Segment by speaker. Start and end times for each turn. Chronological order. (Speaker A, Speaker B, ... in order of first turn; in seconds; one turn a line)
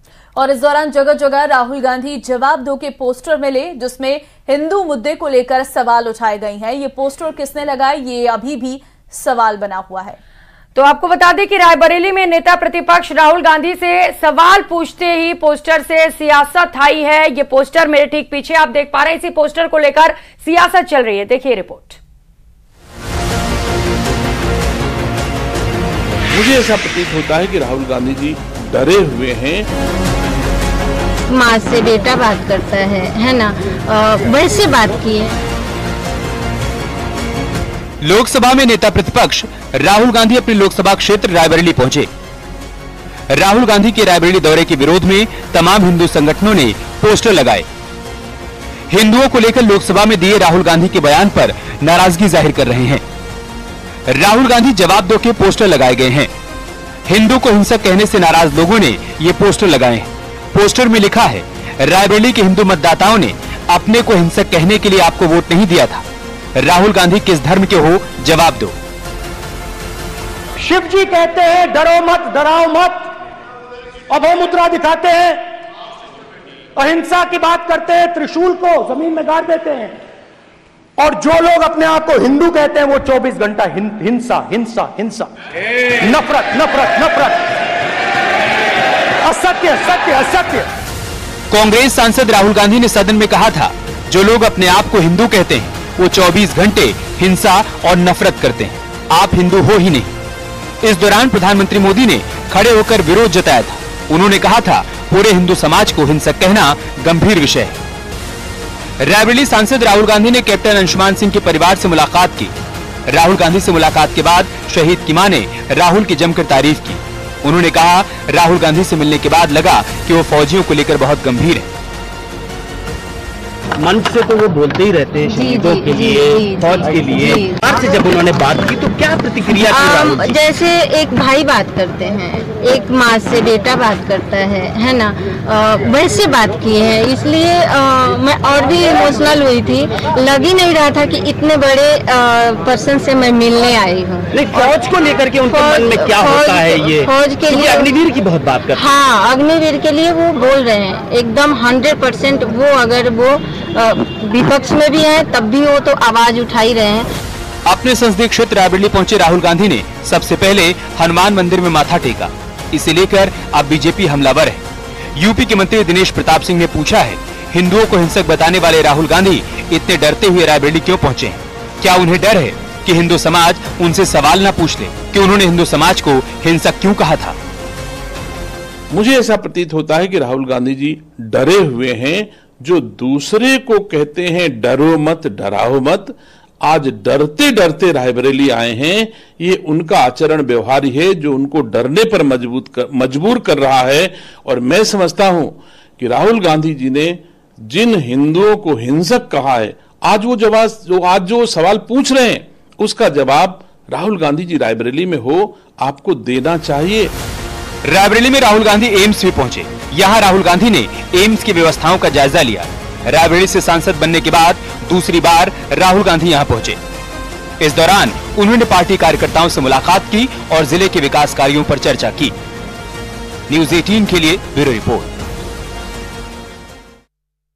Speaker A: 0.3-10.2
Speaker B: 10.8-22.0
Speaker C: 26.3-29.7
Speaker D: 31.3-35.4
Speaker E: 38.0-42.1
Speaker E: 43.3-47.6
Speaker E: 48.9-53.0
Speaker E: 54.1-56.3
Speaker E: 57.1-66.0
Speaker E: 66.6-68.8
Speaker F: 70.6-73.1
Speaker F: 74.1-75.4
Speaker F: 76.8-80.0
Speaker F: 81.0-85.3
Speaker F: 86.0-87.4
Speaker F: 89.2-90.7
Speaker E: 91.5-100.1
Speaker E: 100.8-107.8
Speaker E: 109.0-112.5
Speaker E: 113.1-121.7
Speaker G: 123.8-130.4
Speaker D: 125.2-127.6
Speaker D: 129.5-144.3
Speaker G: 144.3-148.9
Speaker D: 145.5-148.0
Speaker D: 148.7-157.1
Speaker E: 157.7-164.6
Speaker E: 165.2-177.4
Speaker C: 178.9-207.2
Speaker E: 207.9-216.8
Speaker E: 217.6-222.3
Speaker E: 223.5-225.1